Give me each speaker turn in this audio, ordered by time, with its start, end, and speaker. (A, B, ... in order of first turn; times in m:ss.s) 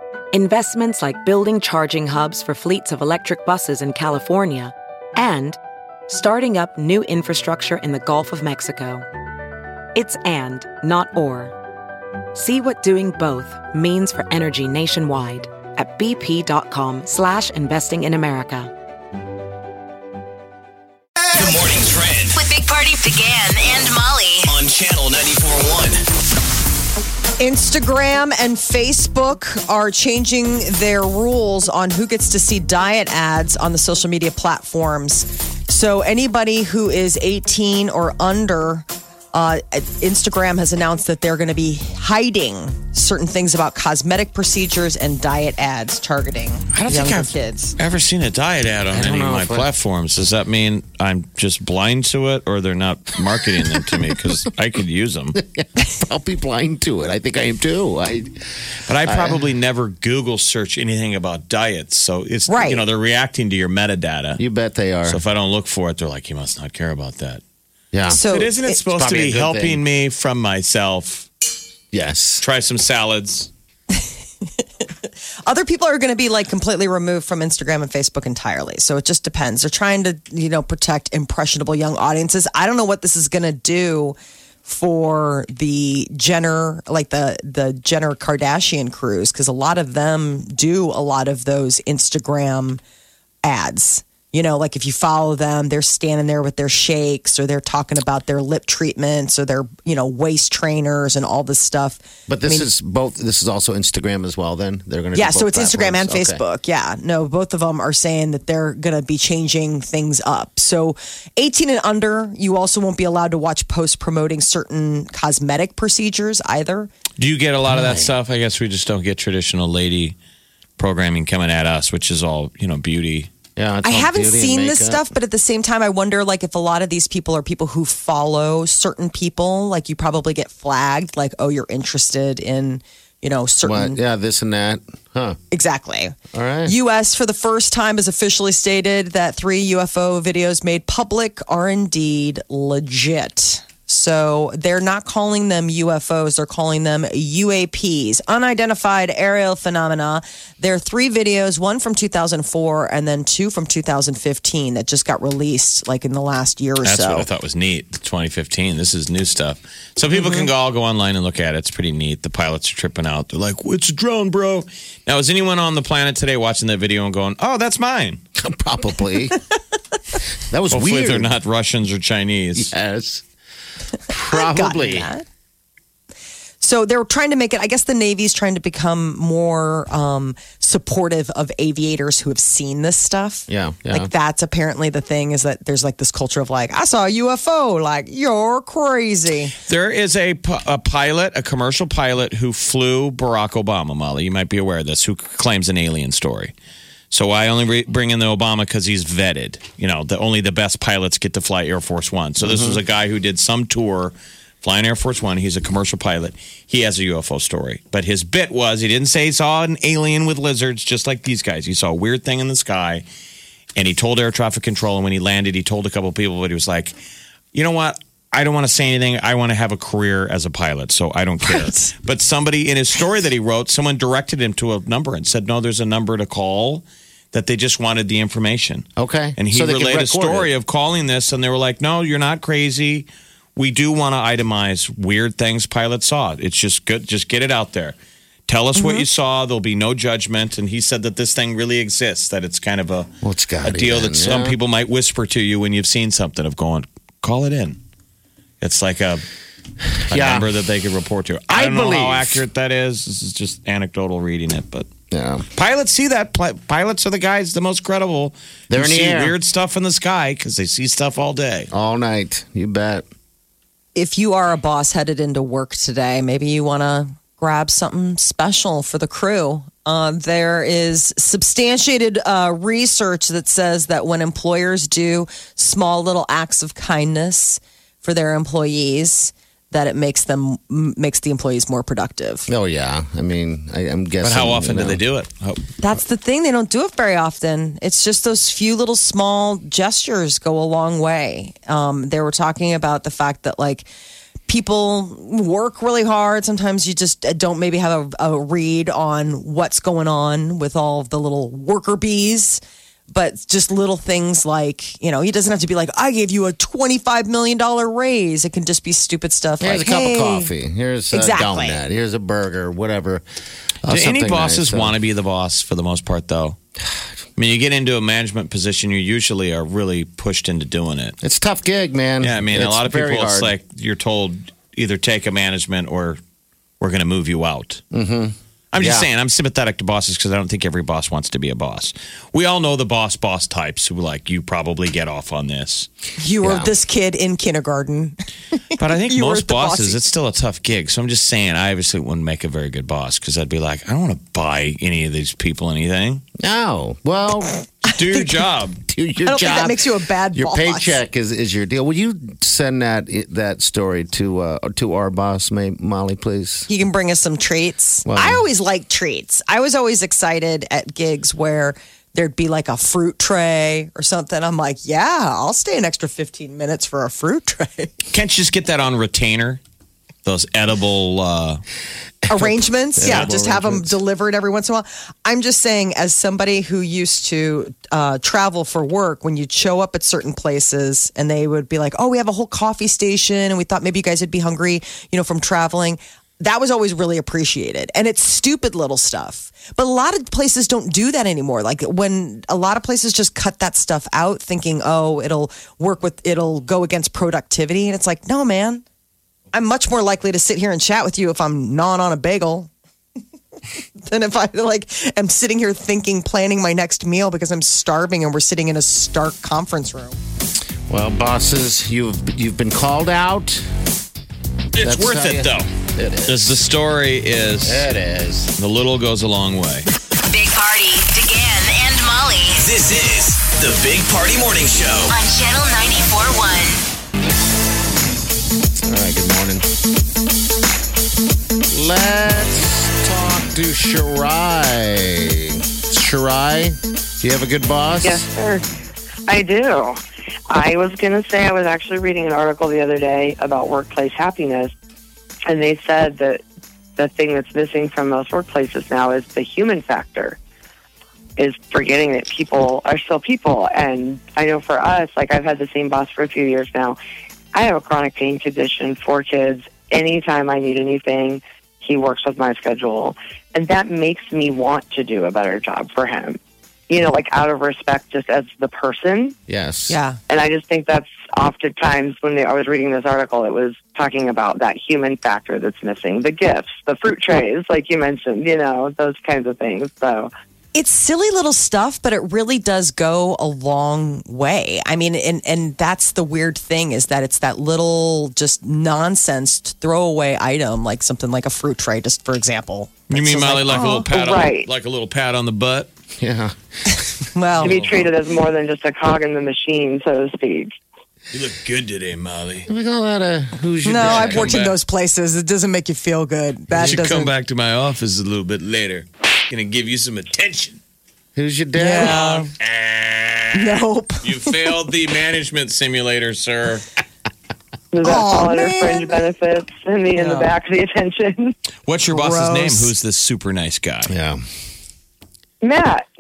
0:00.3-0:09.1 A
0:10.0-0:11.6 A
0:12.3-0:18.7 A
0:21.3-0:22.4 B
0:22.3-0:24.6 C
0:24.5-0:26.0 B
0:27.4-0:47.8 D
0:46.7-0:55.4 E
0:48.9-0:49.7 F
0:53.7-0:54.0 F
0:55.4-0:58.3 F
0:58.9-1:04.4 E
0:59.0-0:59.5 F
1:02.5-1:02.8 D
1:04.4-1:05.2 F
1:05.1-1:07.4 E
1:07.9-1:08.2 F
1:08.1-1:08.8 D
1:08.3-1:11.3 E
1:08.8-1:09.8 F
1:11.9-1:12.4 F
1:12.4-1:13.5 E
1:15.5-1:32.8 D
1:33.4-1:42.7 D
1:42.3-1:46.4 F
1:45.1-1:56.9 D
1:57.2-2:00.2 E
1:57.7-1:58.1 F
2:00.8-2:03.3 E
2:03.6-2:05.1 F
2:03.8-2:14.0 D
2:13.6-2:15.4 F
2:15.5-2:37.3 D
2:16.3-2:16.8 F
2:36.8-2:48.2 E
2:40.2-2:40.5 D
2:48.4-2:49.4 F
2:50.5-2:51.3 F
2:50.7-2:52.7 E
2:52.5-2:53.2 F
2:54.1-2:55.1 F
2:54.1-2:55.2 D
2:56.6-3:09.5 D
3:03.5-3:04.1 F
3:09.7-3:16.5 E
3:17.1-3:33.0 E
3:22.4-3:22.8 F
3:33.8-3:37.0 E
3:37.5-3:58.0 E
3:41.4-3:41.9 D
3:49.0-3:50.5 F
3:58.5-4:03.1 E
3:58.8-3:59.1 D
4:03.2-4:04.6 F
4:03.6-4:07.8 E
4:08.6-4:09.2 E
4:10.1-4:14.9 E
4:10.1-4:10.5 F
4:11.5-4:12.4 F
4:15.1-4:15.4 F
4:15.6-4:21.7 E
4:18.7-4:19.4 F
4:21.7-4:23.0 F
4:24.0-4:42.5 D
4:42.5-4:45.0 F
4:44.2-4:45.6 E
4:45.8-4:53.9 D
4:54.5-5:10.5 D
5:09.6-5:13.2 F
5:11.1-5:11.8 D
5:13.8-5:15.0 F
5:13.9-5:16.6 E
5:17.4-5:21.2 E
5:21.2-5:23.5 F
5:22.2-5:26.2 E
5:26.8-5:27.8 E
5:27.9-5:29.1 F
5:28.7-5:35.9 E
5:36.2-5:38.2 D
5:36.4-5:36.7 F
5:38.7-5:40.0 D
5:38.8-5:46.2 E
5:46.4-5:47.6 F
5:47.8-5:48.8 E
5:48.9-5:49.8 F
5:49.2-5:51.0 D
5:50.3-5:56.7 F
5:56.7-6:08.0 D
5:58.1-5:58.4 F
6:08.1-6:09.6 E
6:10.2-6:11.6 E
6:12.3-6:14.0 F
6:12.3-6:38.8 D
6:13.0-6:13.3 E
6:39.5-6:42.7 D
6:44.0-6:50.2 D
6:50.9-6:53.7 F
6:54.7-6:55.7 E
6:54.8-6:56.6 F
6:56.3-6:57.9 E
6:57.6-6:58.5 F
6:58.6-6:59.9 E
7:00.3-7:02.7 C
7:02.6-7:05.1 B
7:05.1-7:06.8 C
7:08.8-7:09.6 F
7:11.7-7:18.3 F
7:18.0-7:18.6 G
7:19.3-7:20.0 G
7:20.5-7:24.7 G
7:25.5-7:26.4 G
7:27.0-7:30.4 G
7:31.4-7:37.0 G
7:37.5-7:49.4 G
7:49.5-7:50.0 F
7:49.9-7:50.2 D
7:50.3-8:00.3 G
8:00.7-8:14.1 D
8:13.1-8:15.9 E
8:14.1-8:14.7 G
8:16.2-8:16.6 F
8:17.3-8:17.8 D
8:17.6-8:18.1 E
8:17.6-8:20.7 G
8:21.3-8:22.7 E
8:22.7-8:24.6 F
8:23.8-8:27.3 D
8:24.0-8:24.8 E
8:26.7-8:27.0 F
8:26.8-8:30.8 E
8:31.4-8:32.2 F
8:31.7-8:32.5 D
8:32.0-8:36.9 E
8:33.6-8:34.6 D
8:37.9-8:41.5 G
8:38.0-8:39.2 D
8:40.2-8:40.5 D
8:41.9-8:44.1 E
8:42.1-8:42.9 D
8:44.1-8:44.4 F
8:45.6-8:46.1 G